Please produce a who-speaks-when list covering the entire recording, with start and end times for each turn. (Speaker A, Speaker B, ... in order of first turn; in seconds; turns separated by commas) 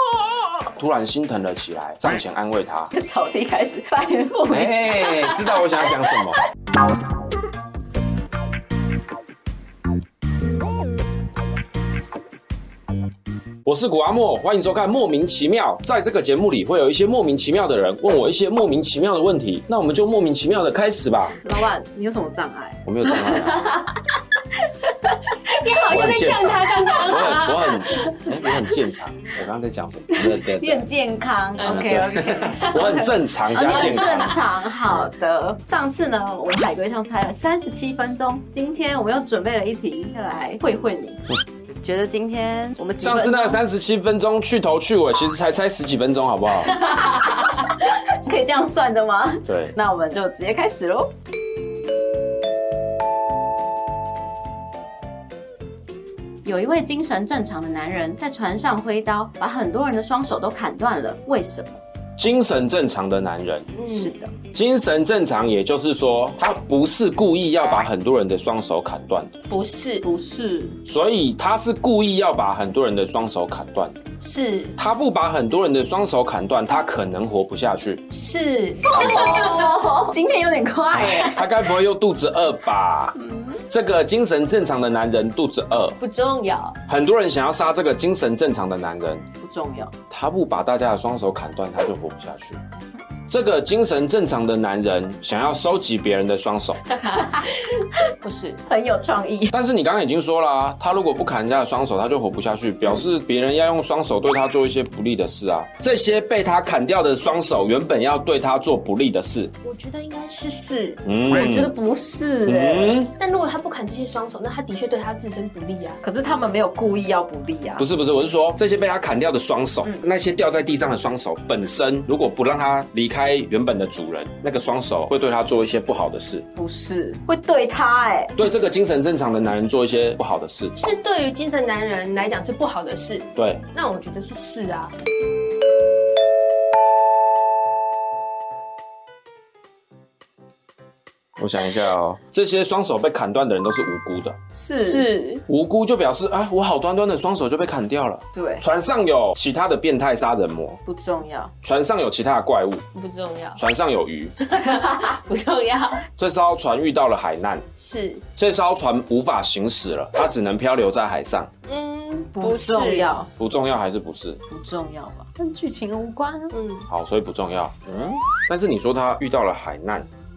Speaker A: 0.7-2.9, Speaker B: 2.9-6.2, Speaker A: 4.5-6.4, Speaker A: 13.6-21.4, Speaker B: 21.4-24.0, Speaker A: 22.8-23.8, Speaker B: 24.6-25.4, Speaker C: 25.5-28.2, Speaker A: 25.9-30.9, Speaker B: 27.1-27.4, Speaker B: 30.1-43.6, Speaker A: 31.6-34.4, Speaker C: 31.6-33.1, Speaker C: 33.7-34.0, Speaker A: 43.0-46.9, Speaker B: 46.6-51.1, Speaker A: 49.5-49.7, Speaker B: 56.4-61.8, Speaker A: 62.2-63.7, Speaker C: 63.7-64.1, Speaker B: 63.9-64.3, Speaker A: 64.5-69.3, Speaker C: 69.5-70.0, Speaker B: 70.0-70.8, Speaker A: 70.8-74.0, Speaker C: 74.2-74.8, Speaker A: 74.8-78.0, Speaker C: 78.1-79.7, Speaker B: 78.8-81.6, Speaker A: 79.2-79.5, Speaker A: 80.9-86.0, Speaker B: 83.2-83.6, Speaker C: 86.0-86.8, Speaker A: 86.9-89.2, Speaker B: 89.4-89.9, Speaker A: 90.1-92.6, Speaker A: 93.3-97.0, Speaker C: 97.0-98.6, Speaker B: 98.7-99.5, Speaker A: 99.5-109.5, Speaker C: 109.6-111.0, Speaker A: 111.0-111.7, Speaker B: 111.3-113.0, Speaker A: 112.5-113.1, Speaker C: 113.2-116.0, Speaker B: 116.0-117.8, Speaker A: 117.8-126.4, Speaker B: 126.5-128.3, Speaker A: 128.3-130.7, Speaker C: 130.8-134.9, Speaker A: 133.4-133.6, Speaker A: 141.4-144.4, Speaker B: 144.5-145.1, Speaker C: 144.8-145.4, Speaker A: 145.5-150.8, Speaker B: 148.3-148.6, Speaker B: 150.8-151.5, Speaker A: 151.6-152.8, Speaker C: 152.9-153.6, Speaker A: 153.6-154.3, Speaker C: 154.4-156.1, Speaker A: 156.2-157.6, Speaker C: 157.8-158.2, Speaker A: 158.3-161.5, Speaker C: 161.7-163.1, Speaker B: 162.3-163.3, Speaker A: 163.4-164.4, Speaker B: 164.5-166.5, Speaker C: 166.5-166.9, Speaker A: 166.9-170.1